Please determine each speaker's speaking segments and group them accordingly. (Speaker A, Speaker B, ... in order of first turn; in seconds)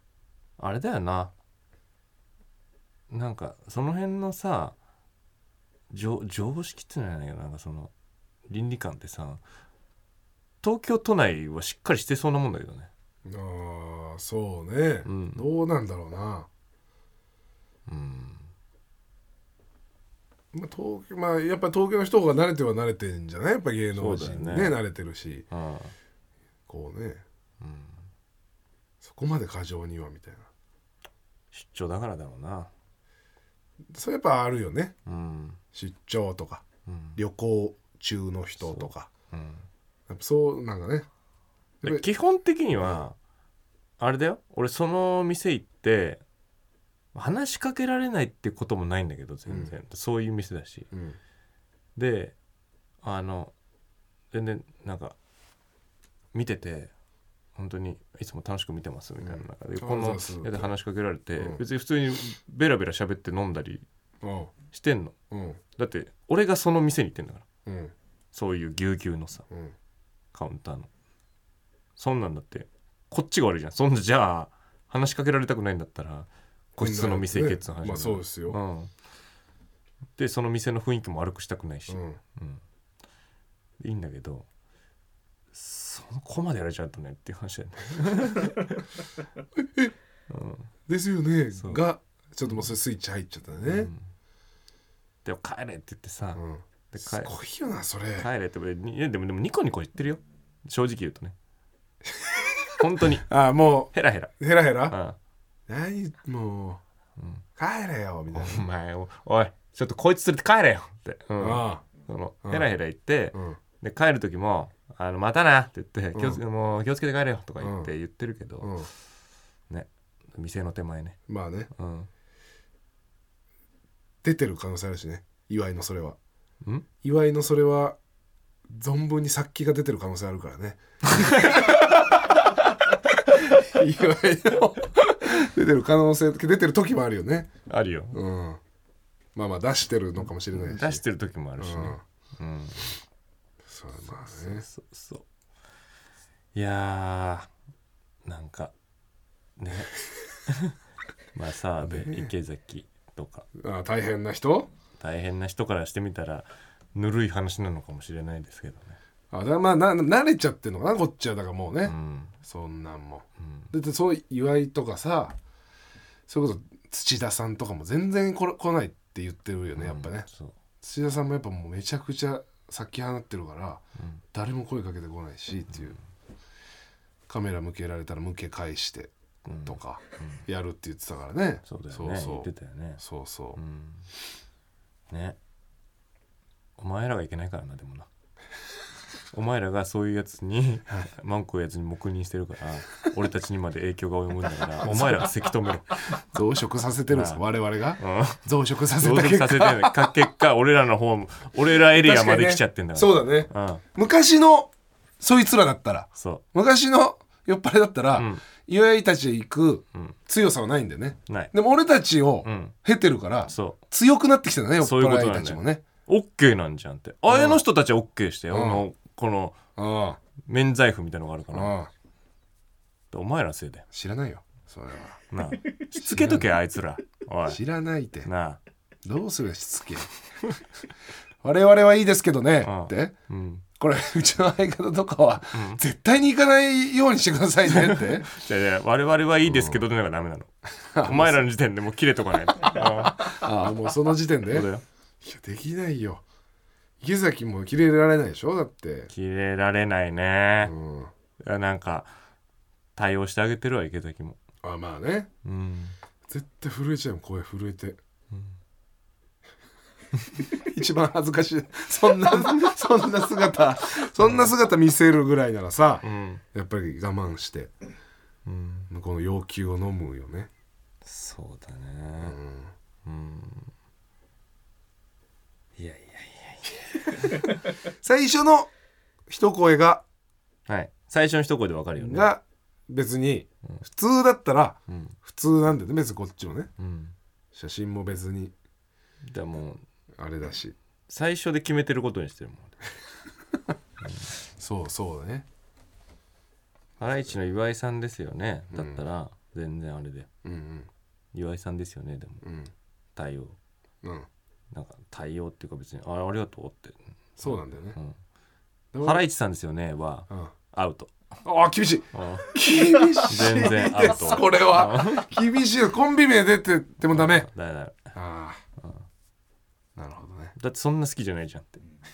Speaker A: 0.6-1.3, 3.1-4.8, 5.9-7.9, 8.5-9.4, 10.6-12.9, 15.0-15.5, 17.9-18.5, 23.9-24.8, 25.5-25.9, 27.6-28.0, 31.5-32.7, 35.0-35.6, 36.9-37.2, 38.6-39.6, 41.8-43.2, 44.0-46.2, 47.1-50.9, 52.0-52.3, 53.0-53.5, 54.3-55.1, 56.3-56.9, 57.5-63.9, 64.7-65.1, 65.8-67.4, 68.3-69.4, 70.3-70.9, 72.0-78.9, 80.2-82.6, 83.8-84.5, 85.5-88.8, 90.3-90.7, 91.5-91.8, 92.4-92.7, 93.6-94.1, 95.2-97.3, 98.2-101.3, 102.8-103.3, 103.9-105.2, 107.2-107.4, 108.3-118.9, 119.7-121.2, 121.7-122.1, 131.2-131.7, 137.7-138.2, 140.2-142.9, 144.0-145.2, 146.5-147.5, 148.2-148.7, 149.6-150.7, 151.3-153.5, 155.0-159.0, 161.8-162.3, 163.4-163.7, 169.8-170.5, 174.0-174.2, 175.7-175.9, 179.4-180.4, 181.6-183.0, 183.5-184.1, 185.1-185.4, 186.8-188.1, 189.3-196.1, 197.1-197.4, 198.0-198.4, 198.9-203.8, 206.2-206.4, 208.1-208.4, 211.3-211.5, 212.4-212.8, 213.4-213.8, 214.8-219.6, 220.4-221.8, 223.1-223.8, 225.3-227.6, 228.2-228.6, 232.6-233.6, 235.5-235.8, 237.7-243.4, 244.5-244.8, 249.1-250.7, 251.4-252.1, 252.9-254.4, 255.4-255.9, 258.3-258.6, 264.2-264.5, 266.0-266.4, 268.4-268.9, 271.0-272.4, 273.1-273.7, 275.8-277.5, 280.6-282.3, 284.9-285.1, 286.8-287.1, 289.2-289.8, 291.1-292.8, 294.0-294.3, 297.0-300.3, 301.3-302.4, 303.1-303.6, 304.7-308.2, 309.0-311.2, 312.1-312.5, 313.2-315.3, 317.1-318.1, 320.5-321.8
Speaker B: 13.2-16.5, 20.5-25.5, 26.7-27.2, 29.0-30.5, 33.9-34.9, 35.7-36.6, 37.1-39.1, 40.1-41.1, 41.8-42.1, 42.8-43.0, 49.5-49.8, 50.9-51.2, 59.2-60.7, 61.4-61.6, 64.2-64.5, 65.3-65.6, 67.7-67.9, 76.8-78.6, 81.9-82.2, 89.7-89.9, 90.9-93.9, 96.3-98.3, 102.1-105.0, 105.7-106.8, 107.6-108.7, 111.4-111.8, 112.4-112.7, 113.3-113.6, 116.1-116.4, 117.6-117.9, 118.6-118.9, 121.3-121.7, 124.2-126.2, 127.0-128.0, 128.7-130.8, 131.3-131.8, 133.5-137.5, 138.1-138.6, 139.3-141.0, 141.6-142.0, 143.7-144.7, 151.8-152.3, 153.6-154.7, 159.3-165.3, 166.3-170.3, 170.8-173.8, 174.3-176.0, 177.3-179.1, 179.6-183.6, 194.8-195.3, 196.3-200.1, 201.7-215.8, 217.3-217.6, 218.5-218.8, 219.8-220.2, 221.5-221.9, 223.9-225.3, 226.0-226.4, 227.5-228.3, 229.0-230.1, 231.4-233.1, 233.8-238.3, 239.4-239.8, 240.9-241.5, 243.0-244.7, 245.2-246.2, 247.0-249.1, 250.6-251.1, 254.6-255.3, 256.3-258.0, 260.4-267.7, 268.9-270.5, 272.2-272.7, 278.0-278.7, 279.3-280.0, 282.0-286.7, 287.5-288.5, 290.1-290.7, 294.6-295.4, 298.7-299.0, 300.4-300.9, 302.4-302.7, 307.4-308.0, 308.9-309.2, 311.4-317.5, 318.1-318.6, 319.9-320.5